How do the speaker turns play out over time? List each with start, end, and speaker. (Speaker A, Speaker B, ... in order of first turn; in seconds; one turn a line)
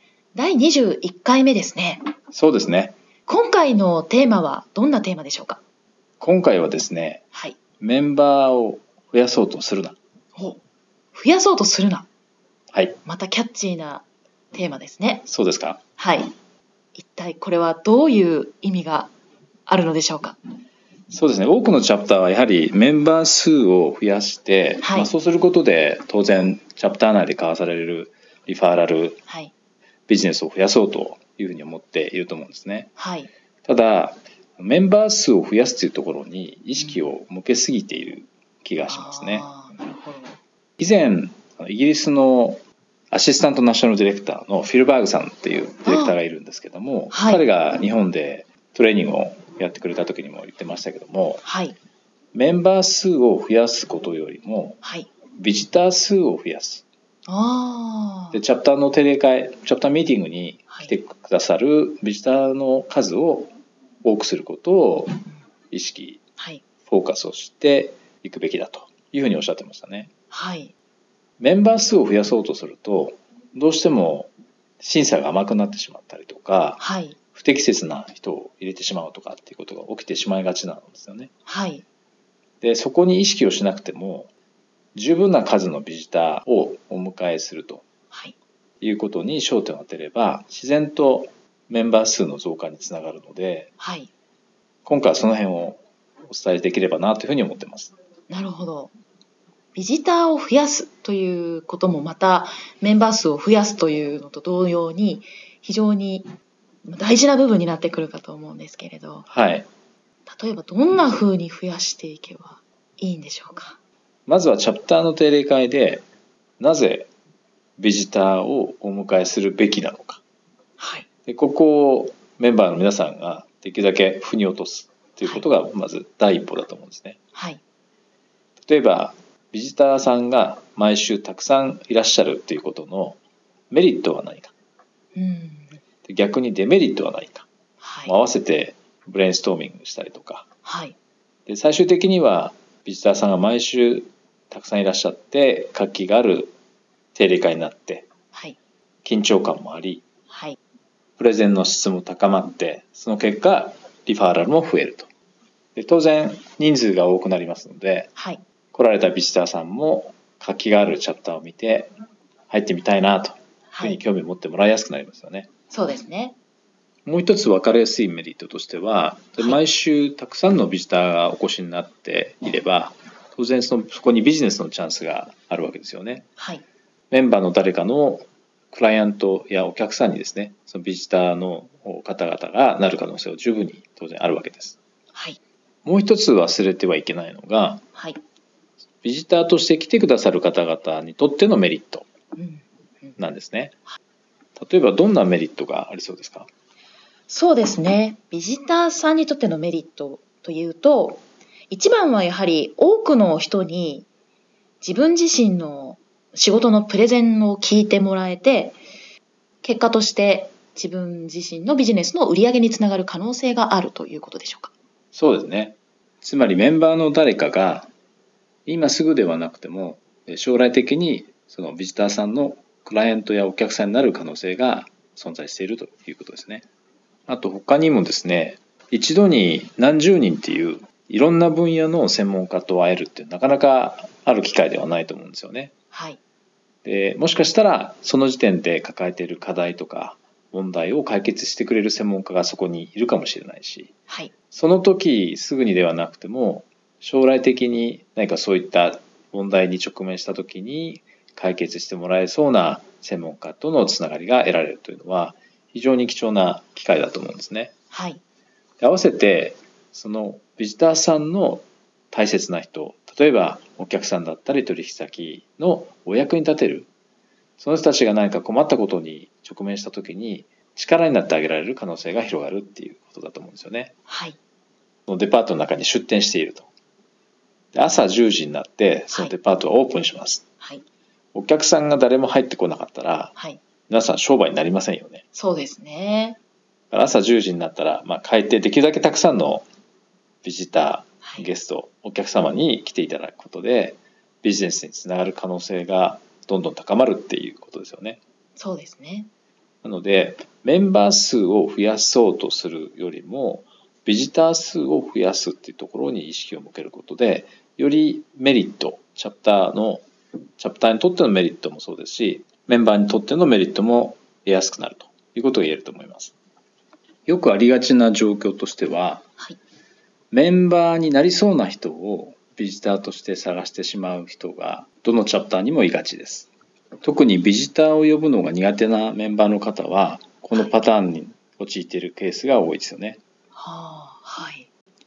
Speaker A: 0.3-2.0
Speaker B: 2.3-3.0
Speaker A: 3.3-5.6
Speaker B: 6.2-7.2
Speaker B: 7.8-10.0
Speaker A: 10.3-10.6
Speaker A: 11.1-12.1
Speaker B: 12.7-13.0
Speaker A: 13.1-15.3
Speaker B: 15.3-15.8
Speaker A: 16.0-16.3
Speaker A: 16.9-19.1
Speaker A: 19.7-20.4
Speaker B: 21.1-29.2
Speaker A: 24.8-25.1
Speaker A: 29.3-29.5
Speaker B: 30.1-32.9
Speaker A: 33.0-33.3
Speaker B: 33.6-39.5
Speaker A: 38.9-40.4
Speaker B: 40.8-51.4
Speaker A: 45.9-46.2
Speaker A: 47.1-47.4
Speaker A: 51.4-51.8
Speaker B: 52.3-54.8
Speaker A: 54.8-55.1
Speaker B: 55.3-56.9
Speaker A: 57.3-58.4
Speaker B: 58.3-63.5
Speaker B: 64.0-65.2
Speaker B: 65.7-66.2
Speaker A: 66.4-66.6
Speaker B: 66.9-70.1
Speaker A: 70.3-70.7
Speaker B: 71.4-76.8
Speaker A: 76.8-77.2
Speaker B: 77.3-81.3
Speaker A: 81.5-81.8
Speaker B: 82.6-84.3
Speaker B: 85.0-87.8
Speaker B: 88.8-93.7
Speaker A: 93.8-94.1
Speaker B: 94.8-97.9
Speaker A: 98.3-98.9
Speaker A: 99.8-106.3
Speaker A: 106.9-109.3
Speaker B: 109.3-109.7
Speaker A: 110.3-113.8
Speaker B: 114.3-116.0
Speaker B: 116.6-117.1
Speaker B: 117.8-120.2
Speaker A: 120.8-121.1
Speaker B: 121.3-127.2
Speaker A: 127.3-127.6
Speaker B: 128.6-133.2
Speaker B: 133.7-134.5
Speaker A: 135.2-135.8
Speaker B: 136.1-137.5
Speaker A: 137.8-138.1
Speaker B: 138.1-140.5
Speaker A: 140.6-141.0
Speaker B: 141.5-146.6
Speaker B: 147.1-148.1
Speaker A: 148.3-148.6
Speaker B: 149.1-150.1
Speaker A: 150.3-150.6
Speaker B: 151.2-155.1
Speaker B: 155.8-158.1
Speaker A: 158.2-158.4
Speaker B: 158.7-161.9
Speaker B: 162.5-165.5
Speaker A: 163.7-164.0
Speaker A: 165.7-166.3
Speaker B: 167.1-176.3
Speaker A: 176.4-176.6
Speaker B: 177.1-184.8
Speaker A: 185.1-185.4
Speaker B: 185.8-187.8
Speaker B: 189.0-192.1
Speaker A: 192.4-193.2
Speaker B: 193.2-193.8
Speaker B: 194.6-196.5
Speaker A: 197.3-204.1
Speaker A: 204.8-208.8
Speaker A: 209.6-214.7
Speaker B: 215.1-217.9
Speaker B: 218.7-226.7
Speaker B: 227.3-235.7
Speaker A: 235.9-236.2
Speaker B: 236.8-243.9
Speaker B: 244.5-257.7
Speaker A: 257.9-258.2
Speaker B: 258.8-266.9
Speaker B: 267.6-273.9
Speaker A: 274.1-274.4
Speaker B: 275.1-276.7
Speaker B: 277.7-280.5
Speaker B: 281.3-283.4
Speaker B: 283.9-285.2
Speaker A: 285.3-286.4
Speaker B: 286.9-289.7
Speaker B: 290.4-298.2
Speaker A: 291.2-291.5
Speaker A: 298.6-299.3
Speaker B: 299.8-310.1
Speaker B: 310.6-316.3
Speaker B: 317.3-319.2
Speaker B: 320.3-326.5
Speaker B: 327.0-333.2
Speaker A: 333.6-334.7